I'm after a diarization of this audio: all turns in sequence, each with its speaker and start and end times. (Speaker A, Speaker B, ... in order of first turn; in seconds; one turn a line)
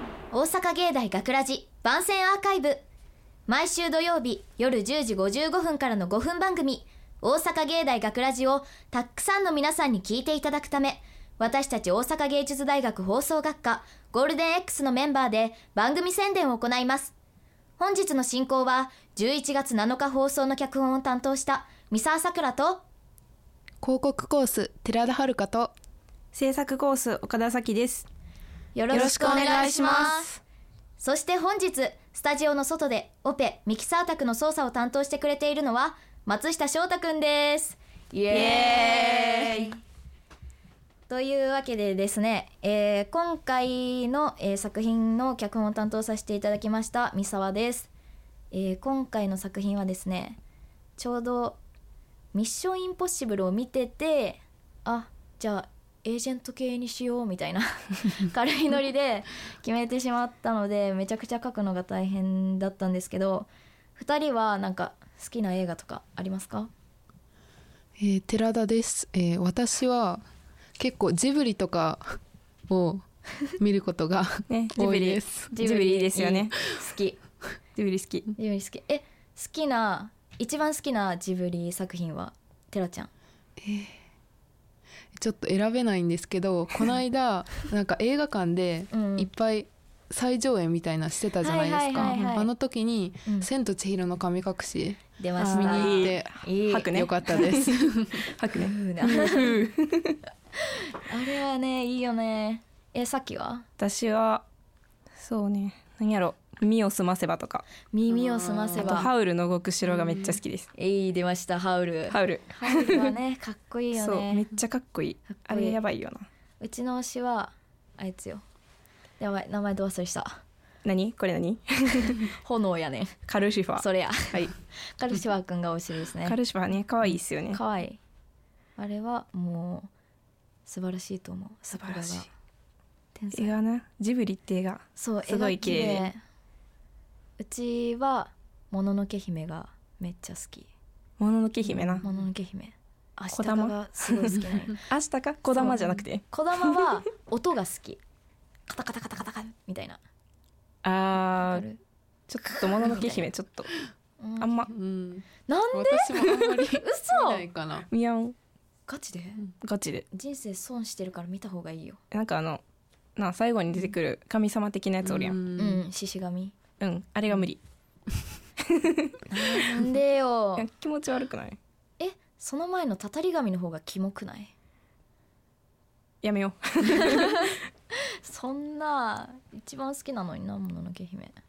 Speaker A: 0.3-2.8
Speaker A: 3.5-17.1
Speaker A: 17.8-22.8
Speaker B: 23.8-25.7
Speaker C: 26.3-28.1
Speaker A: 28.8-30.4
Speaker C: 28.9-30.4
Speaker A: 31.0-39.8
Speaker C: 38.3-39.7
Speaker A: 41.1-47.9
Speaker A: 48.5-50.4
Speaker A: 51.0-51.6
Speaker A: 52.3-66.7
Speaker B: 68.0-70.2
Speaker B: 70.8-72.2
Speaker B: 72.7-73.0
Speaker B: 73.6-75.5
Speaker C: 74.5-76.5
Speaker A: 75.5-77.2
Speaker C: 77.8-78.3
Speaker A: 78.4-83.1
Speaker B: 83.6-83.9
Speaker B: 85.2-98.2
Speaker A: 88.9-89.3
Speaker A: 91.4-92.5
Speaker A: 95.2-97.0
Speaker C: 95.4-97.7
Speaker C: 98.3-98.8
Speaker A: 98.5-99.6
Speaker B: 99.0-99.7
Speaker C: 99.4-100.2
Speaker A: 101.1-103.7
Speaker C: 103.8-104.5
Speaker C: 105.2-107.7
Speaker A: 107.9-109.1
Speaker C: 108.3-110.7
Speaker A: 110.8-114.5
Speaker C: 112.1-113.1
Speaker C: 113.9-116.3
Speaker A: 115.3-115.8
Speaker A: 116.6-118.4
Speaker A: 119.2-120.4
Speaker C: 120.8-122.2
Speaker A: 122.3-123.2
Speaker C: 123.3-124.5
Speaker A: 123.8-126.4
Speaker C: 126.2-127.6
Speaker A: 127.5-128.0
Speaker A: 128.8-129.9
Speaker A: 130.7-132.3
Speaker C: 131.8-132.3
Speaker A: 133.2-133.6
Speaker C: 133.3-136.1
Speaker A: 135.0-136.2
Speaker A: 137.4-140.7
Speaker C: 141.2-142.0
Speaker B: 141.9-142.2
Speaker A: 142.0-144.8
Speaker C: 143.3-146.3
Speaker A: 145.5-148.0
Speaker A: 148.7-150.0
Speaker C: 150.8-151.6
Speaker A: 151.3-151.8
Speaker C: 152.3-153.7
Speaker A: 152.8-153.3
Speaker A: 154.2-154.7
Speaker C: 154.4-154.7
Speaker B: 154.7-157.9
Speaker A: 155.5-157.4
Speaker C: 157.9-158.3
Speaker A: 158.9-159.4
Speaker C: 159.6-160.1
Speaker A: 160.1-162.0
Speaker C: 162.1-162.6
Speaker C: 163.2-165.4
Speaker B: 165.0-165.8
Speaker A: 165.6-166.5
Speaker C: 166.8-167.6
Speaker C: 168.7-169.2
Speaker A: 169.3-170.7
Speaker C: 170.6-171.6
Speaker A: 172.0-174.5
Speaker C: 176.2-177.5
Speaker A: 176.9-177.5
Speaker A: 178.2-181.3